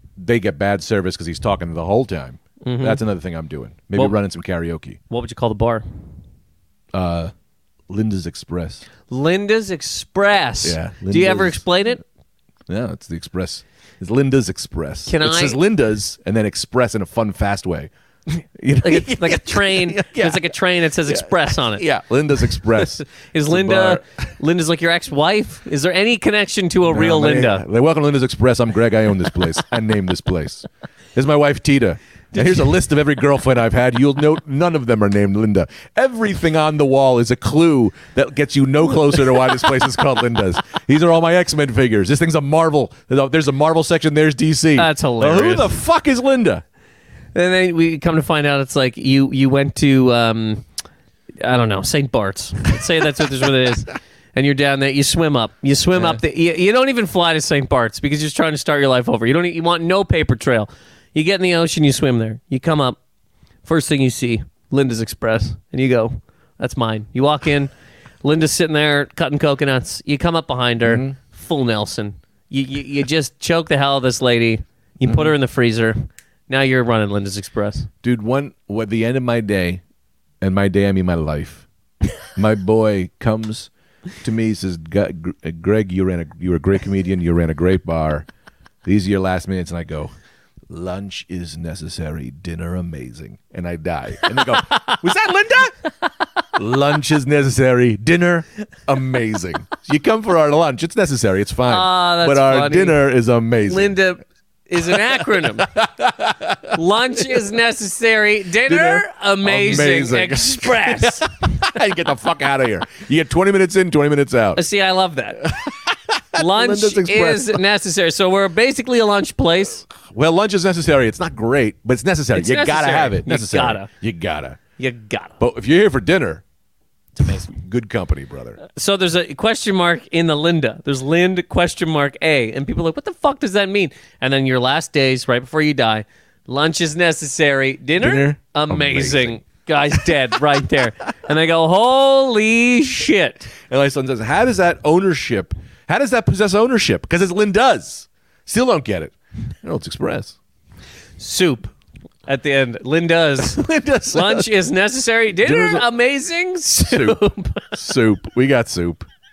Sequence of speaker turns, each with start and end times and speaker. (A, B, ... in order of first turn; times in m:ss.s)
0:00.2-0:05.0 A
0:02.6-0:03.0 B
0:05.1-0:05.8 B
0:06.9-0:07.3 A
0:07.9-0:08.9 A
0:09.1-0:12.0 B
0:10.6-0:11.6 A
0:12.7-0:17.9 A
0:15.1-0:15.6 B
0:18.6-0:24.0 A
0:18.8-0:21.8 B
0:22.6-0:27.6 B
0:26.9-0:46.6 A
0:44.8-0:45.8 B
0:47.3-0:50.6 B
0:51.4-1:03.0 B
0:55.9-0:56.2 A
1:03.6-1:07.7 B
1:08.2-1:17.9 B
1:10.8-1:11.2 A
1:15.0-1:15.3 A
1:18.0-1:19.8 A
1:20.4-1:21.7 A
1:22.3-1:23.7 A
1:24.2-1:28.3 A
1:28.8-1:30.1 A
1:30.7-1:35.7 A
1:36.6-1:44.0 A
1:41.7-1:43.0 B
1:43.7-1:45.7 B
1:44.8-1:46.8 A
1:46.7-1:51.3 B
1:48.7-1:54.6 A
1:54.6-1:55.5 B
1:55.4-1:57.6 A
1:56.4-1:59.8 B
2:00.0-2:04.6 A
2:02.3-2:03.9 B
2:04.8-2:05.4 B
2:05.4-2:06.4 A
2:07.2-2:07.5 B
2:07.2-2:08.6 A
2:08.7-2:23.5 B
2:18.0-2:19.4 A
2:23.7-2:30.4 A
2:31.2-2:31.7 B
2:32.3-2:37.7 B
2:33.5-2:34.5 A
2:35.4-2:35.9 A
2:36.9-2:37.2 A
2:37.7-2:39.0 A